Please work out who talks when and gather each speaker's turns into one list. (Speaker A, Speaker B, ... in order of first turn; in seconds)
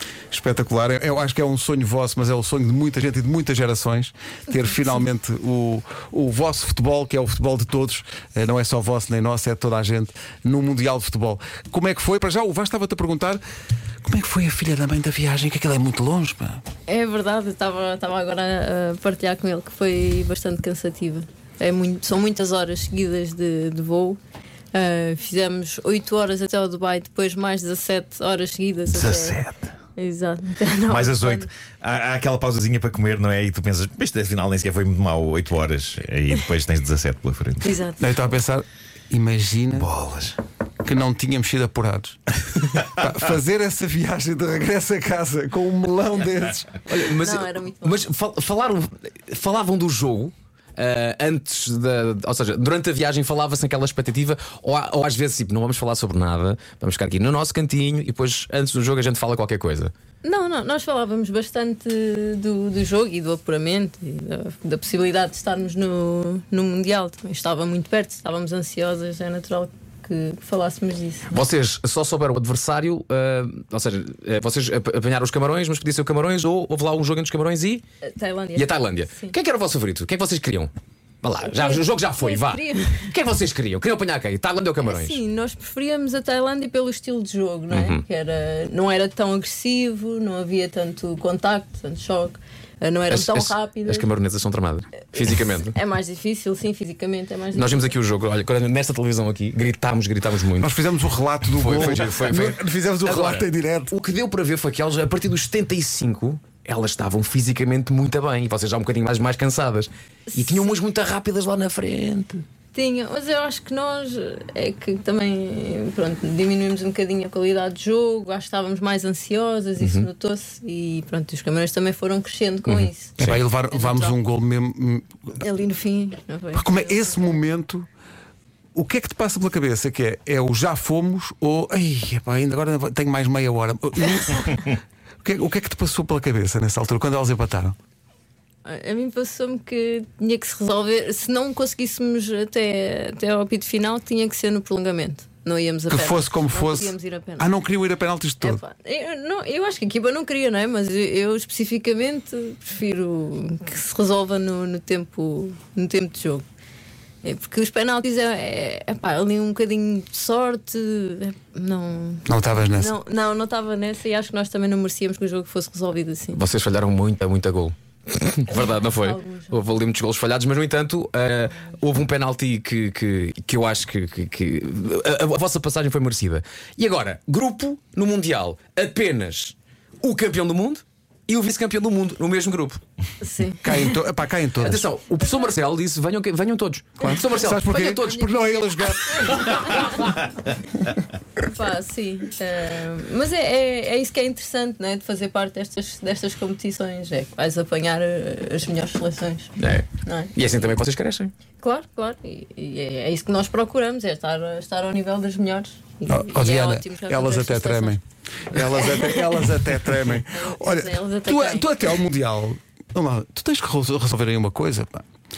Speaker A: 0.3-13.4, 14.0-16.6, 38.0-39.9, 40.8-47.0, 100.6-103.9, 123.2-125.4, 126.5-127.9, 128.7-137.8, 145.9-148.6, 162.2-162.9, 183.6-184.9, 187.0-190.0, 206.1-215.0
Speaker B: 16.9-24.2, 24.7-29.4, 29.9-31.5, 37.6-38.1, 47.2-48.0, 60.2-71.4, 78.0-79.3, 81.5-83.1, 84.8-94.1, 95.7-97.9, 110.3-110.8, 112.7-123.1, 123.7-124.2, 125.4-127.3, 138.6-147.6, 148.4-156.4, 157.2-166.4, 168.5-169.7, 183.2-184.0, 188.3-188.6, 191.4-200.3, 201.6-208.0, 208.6-209.4, 210.3-211.7
Speaker C: 28.9-29.7, 30.9-37.7, 39.7-40.4
Speaker D: 46.9-59.9, 71.3-77.8, 78.5-80.7, 81.2-85.2, 87.7-88.0, 93.1-95.8, 97.5-100.7, 101.5-112.4, 119.8-120.1, 122.7-123.4, 166.3-182.8, 184.6-188.3, 199.6-201.3